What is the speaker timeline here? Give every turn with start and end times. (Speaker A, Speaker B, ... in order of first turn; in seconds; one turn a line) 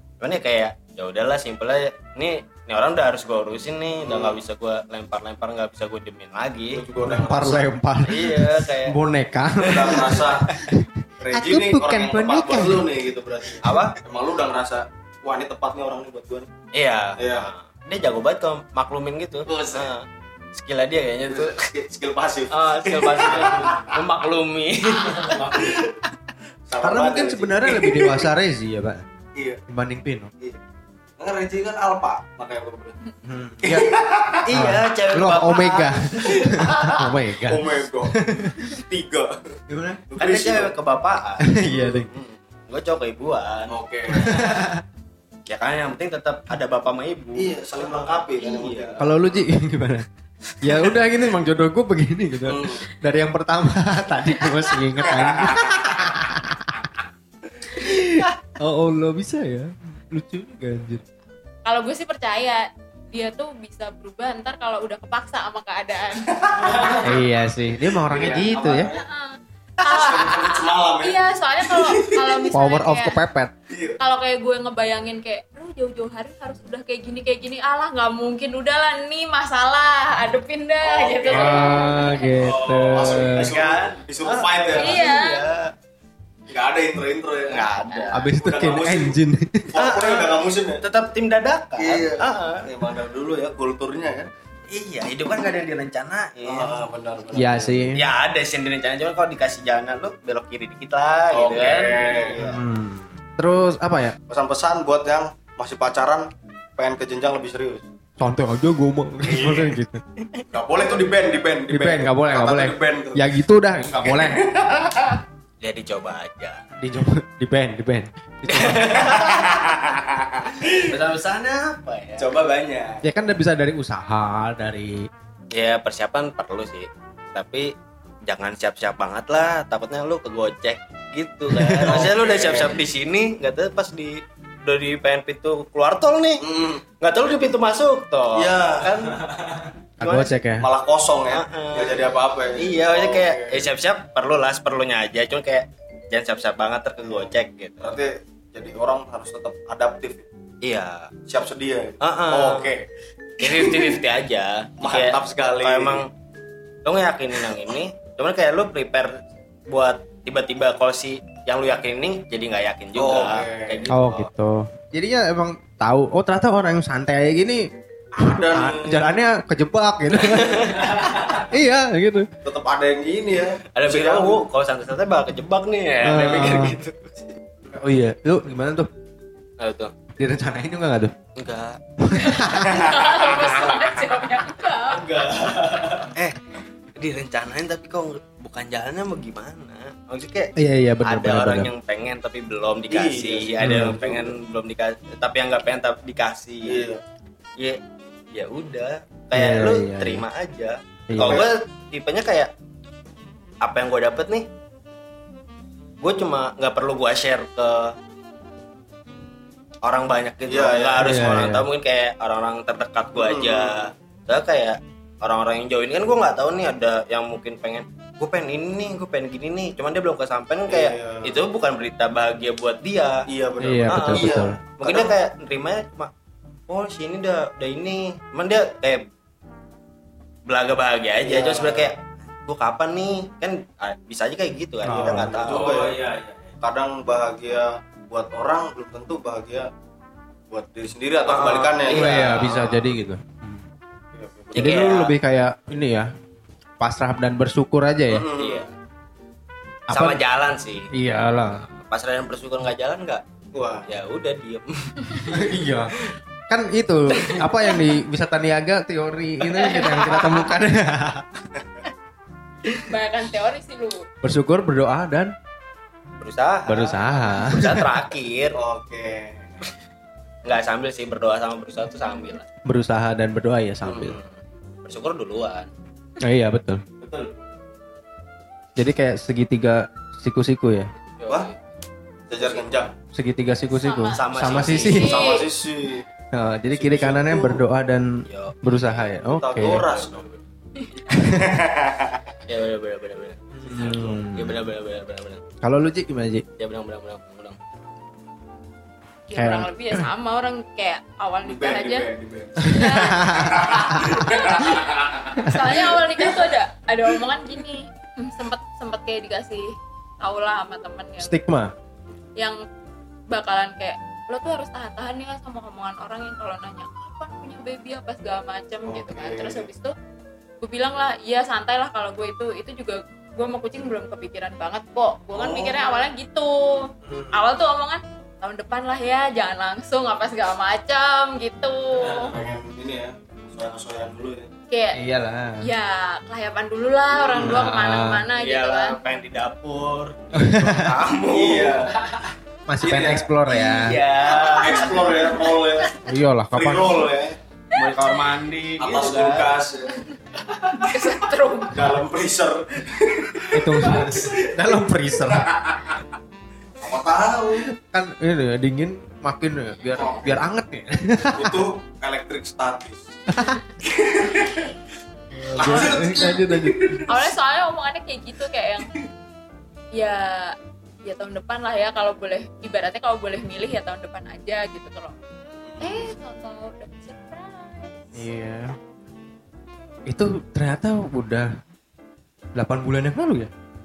Speaker A: 0.2-6.8
Speaker B: 4.0-4.4
Speaker B: 6.7-7.7
Speaker C: 7.0-12.9
Speaker A: 8.0-9.0
Speaker B: 9.6-10.5
Speaker A: 9.7-10.7
Speaker B: 11.2-16.5
Speaker A: 13.6-14.0
Speaker A: 16.7-21.6
Speaker B: 17.2-17.5
Speaker B: 19.5-19.9
Speaker B: 21.3-24.0
Speaker A: 22.5-25.6
Speaker B: 25.0-25.9
Speaker B: 26.7-28.3
Speaker C: 26.8-29.0
Speaker B: 29.4-29.6
Speaker C: 29.7-30.3
Speaker B: 31.2-33.0
Speaker C: 33.2-33.9
Speaker B: 33.6-34.5
Speaker A: 34.5-36.9
Speaker C: 34.5-38.8
Speaker B: 36.4-39.3
Speaker C: 39.7-40.0
Speaker B: 40.1-40.7
Speaker A: 40.2-43.7
Speaker C: 41.4-42.1
Speaker B: 43.7-44.5
Speaker C: 44.1-44.8
Speaker A: 45.5-49.0
Speaker B: 47.4-49.1
Speaker C: 49.0-50.0
Speaker C: 50.6-56.9
Speaker B: 52.5-52.9
Speaker B: 55.1-55.5
Speaker C: 57.7-61.0
Speaker D: 61.6-67.2
Speaker B: 66.3-67.2
Speaker C: 67.0-68.9
Speaker B: 67.9-69.0
Speaker D: 68.8-73.2
Speaker B: 69.8-72.5
Speaker C: 72.5-73.5
Speaker B: 73.7-74.0
Speaker D: 74.0-82.5
Speaker B: 80.8-85.1
Speaker C: 81.3-83.5
Speaker A: 82.5-85.7
Speaker D: 84.8-85.5
Speaker B: 86.5-87.8
Speaker A: 87.5-88.3
Speaker C: 88.1-89.7
Speaker B: 88.4-89.2
Speaker B: 89.7-90.8
Speaker A: 89.8-92.7
Speaker B: 91.8-94.3
Speaker A: 94.7-96.8
Speaker B: 96.5-97.8
Speaker C: 97.3-98.0
Speaker A: 97.9-102.6
Speaker B: 101.3-102.5
Speaker C: 102.4-104.2
Speaker B: 104.3-107.8
Speaker C: 108.2-110.0
Speaker B: 109.2-109.8
Speaker B: 110.5-113.2
Speaker C: 111.7-114.4
Speaker B: 113.9-115.2
Speaker A: 115.6-116.6
Speaker C: 116.8-119.1
Speaker A: 118.5-120.0
Speaker B: 119.0-119.9
Speaker B: 120.5-120.8
Speaker A: 120.7-122.4
Speaker B: 122.2-123.0
Speaker C: 123.0-125.1
Speaker A: 125.5-127.7
Speaker A: 128.3-136.4
Speaker C: 131.7-132.0
Speaker B: 131.8-132.8
Speaker B: 136.4-136.8
Speaker A: 137.0-140.3
Speaker B: 138.3-139.2
Speaker C: 140.0-140.7
Speaker B: 140.6-143.7
Speaker A: 141.3-148.0
Speaker B: 147.8-150.2
Speaker A: 150.6-151.1
Speaker B: 151.3-152.8
Speaker A: 152.0-152.7
Speaker A: 153.4-156.1
Speaker B: 153.4-154.0
Speaker B: 154.8-156.0
Speaker A: 156.8-159.2
Speaker A: 159.7-164.3
Speaker B: 163.0-163.9
Speaker C: 163.9-167.7
Speaker B: 168.2-169.1
Speaker C: 168.2-172.3
Speaker A: 170.2-171.5
Speaker B: 172.4-174.4
Speaker A: 173.8-177.0
Speaker C: 176.0-176.8
Speaker C: 177.7-178.9
Speaker A: 179.6-179.9
Speaker C: 180.2-181.1
Speaker A: 181.4-181.8
Speaker C: 182.0-182.8
Speaker D: 182.1-185.0
Speaker A: 183.1-183.9
Speaker A: 184.9-186.3
Speaker A: 187.0-190.5
Speaker C: 190.6-191.7
Speaker A: 191.0-196.9
Speaker B: 192.9-194.4
Speaker C: 193.6-194.0
Speaker B: 196.7-197.0
Speaker A: 198.3-202.5
Speaker C: 199.3-200.2
Speaker C: 201.1-201.4
Speaker B: 201.2-201.5
Speaker A: 203.6-204.5
Speaker A: 206.0-207.9
Speaker A: 209.8-223.2
Speaker B: 210.5-211.6
Speaker C: 211.0-211.7
Speaker B: 213.2-213.9
Speaker B: 220.7-221.4
Speaker B: 223.3-225.1
Speaker C: 223.6-224.6
Speaker A: 223.9-226.1
Speaker A: 226.7-229.1
Speaker A: 230.5-236.4
Speaker B: 231.2-231.9
Speaker C: 234.8-235.4
Speaker B: 234.9-236.0
Speaker B: 236.6-239.7
Speaker B: 240.5-242.8
Speaker A: 241.3-242.8
Speaker C: 241.9-243.6
Speaker B: 244.2-244.9
Speaker A: 244.5-245.2
Speaker C: 244.6-246.1
Speaker C: 246.8-248.3
Speaker B: 248.1-248.7
Speaker A: 248.4-248.7
Speaker C: 249.9-250.2
Speaker A: 249.9-250.9
Speaker C: 250.9-251.6
Speaker A: 251.5-253.2
Speaker B: 253.5-253.9
Speaker A: 253.9-255.5
Speaker C: 255.3-256.0
Speaker C: 256.5-261.2
Speaker D: 259.6-260.3
Speaker D: 262.8-264.1
Speaker C: 264.2-265.3
Speaker A: 266.2-268.6
Speaker C: 266.7-267.9
Speaker B: 268.6-269.5
Speaker A: 270.4-272.4
Speaker D: 272.0-272.4
Speaker C: 272.6-274.2
Speaker A: 273.9-275.7
Speaker C: 276.2-276.8
Speaker B: 277.0-277.3
Speaker C: 278.8-280.9
Speaker A: 281.2-281.6
Speaker B: 282.3-282.9
Speaker C: 283.1-285.2
Speaker D: 283.7-285.5
Speaker A: 284.1-285.4
Speaker B: 284.9-286.1
Speaker C: 286.3-289.9
Speaker B: 286.7-287.6
Speaker A: 288.3-288.6
Speaker B: 289.4-290.2
Speaker A: 289.5-290.4
Speaker D: 290.8-291.0
Speaker C: 291.1-291.5
Speaker B: 291.2-292.3
Speaker A: 292.5-295.4
Speaker C: 293.6-294.6
Speaker C: 295.6-296.4
Speaker A: 296.6-297.6
Speaker D: 299.3-302.1
Speaker C: 299.3-300.0
Speaker B: 301.5-306.4
Speaker C: 302.6-304.2
Speaker D: 302.6-311.4
Speaker C: 311.2-311.7
Speaker D: 313.3-319.9
Speaker B: 318.9-319.7
Speaker D: 320.6-332.3
Speaker B: 325.3-326.1
Speaker B: 332.1-334.5
Speaker D: 334.7-335.0
Speaker C: 334.9-335.6
Speaker D: 335.6-339.0
Speaker B: 337.1-337.7
Speaker C: 337.4-338.3
Speaker A: 338.4-342.3
Speaker C: 340.4-341.0
Speaker B: 341.2-341.9
Speaker C: 342.7-344.0
Speaker B: 342.8-343.3
Speaker A: 343.7-345.3
Speaker B: 344.2-345.9
Speaker D: 344.7-345.2
Speaker C: 346.1-347.1
Speaker B: 346.5-347.4
Speaker A: 347.7-349.6
Speaker B: 348.8-350.0
Speaker B: 350.5-350.9
Speaker D: 350.7-352.0
Speaker B: 351.7-356.0
Speaker C: 353.5-355.5
Speaker B: 356.8-357.7
Speaker C: 357.7-361.7
Speaker B: 360.0-360.3
Speaker B: 361.3-363.2
Speaker C: 363.3-363.6
Speaker B: 363.8-364.7
Speaker C: 365.4-367.1
Speaker B: 365.4-367.3
Speaker D: 365.6-366.0
Speaker D: 367.1-368.9
Speaker D: 369.9-375.1
Speaker B: 375.6-376.1
Speaker D: 375.8-378.4
Speaker C: 378.2-378.8
Speaker C: 380.1-381.5
Speaker C: 382.6-383.5